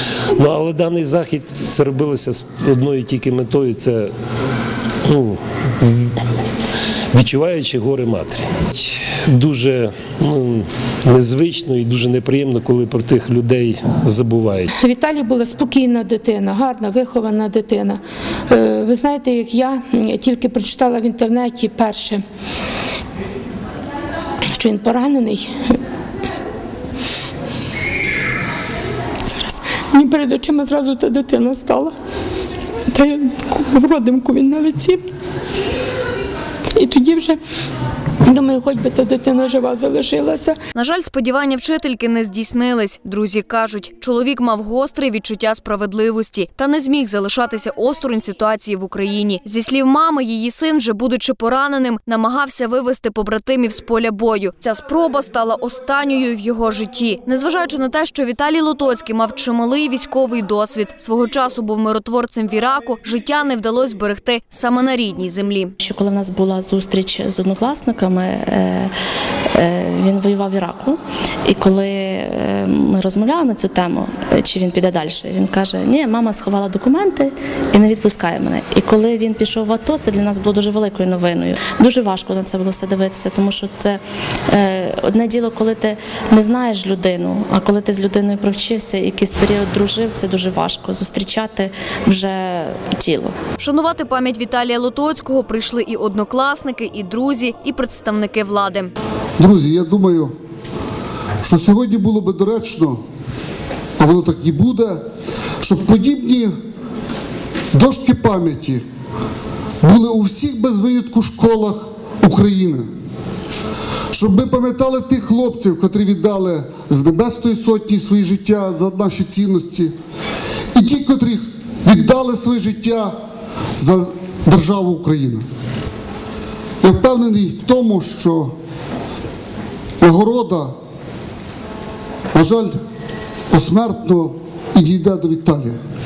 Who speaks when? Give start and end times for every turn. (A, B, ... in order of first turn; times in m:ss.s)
0:00.4-0:04.1 A
0:05.0-0:06.1 A
0:07.1-0:14.7 A
0:14.7-0:22.2 B
0:24.5-0:25.5 B
0:29.2-0:31.9 B
0:32.9-0:35.0 B
0:36.7-0:37.4 B
0:38.2-0:40.6 B
0:40.7-1:05.7 C
1:05.8-1:08.9 D
1:09.5-1:33.3 D
1:33.6-1:38.9 C
1:39.4-1:40.3 E
1:41.4-1:43.0 E
1:44.0-1:45.0 E
1:45.6-1:46.5 E
1:47.7-1:48.8 E
1:49.8-1:52.8 E
1:54.1-1:59.9 E
2:00.7-2:03.1 E
2:03.8-2:05.4 E
2:06.8-2:08.5 E
2:10.0-2:10.7 E
2:12.3-2:12.8 E
2:13.5-2:15.8 E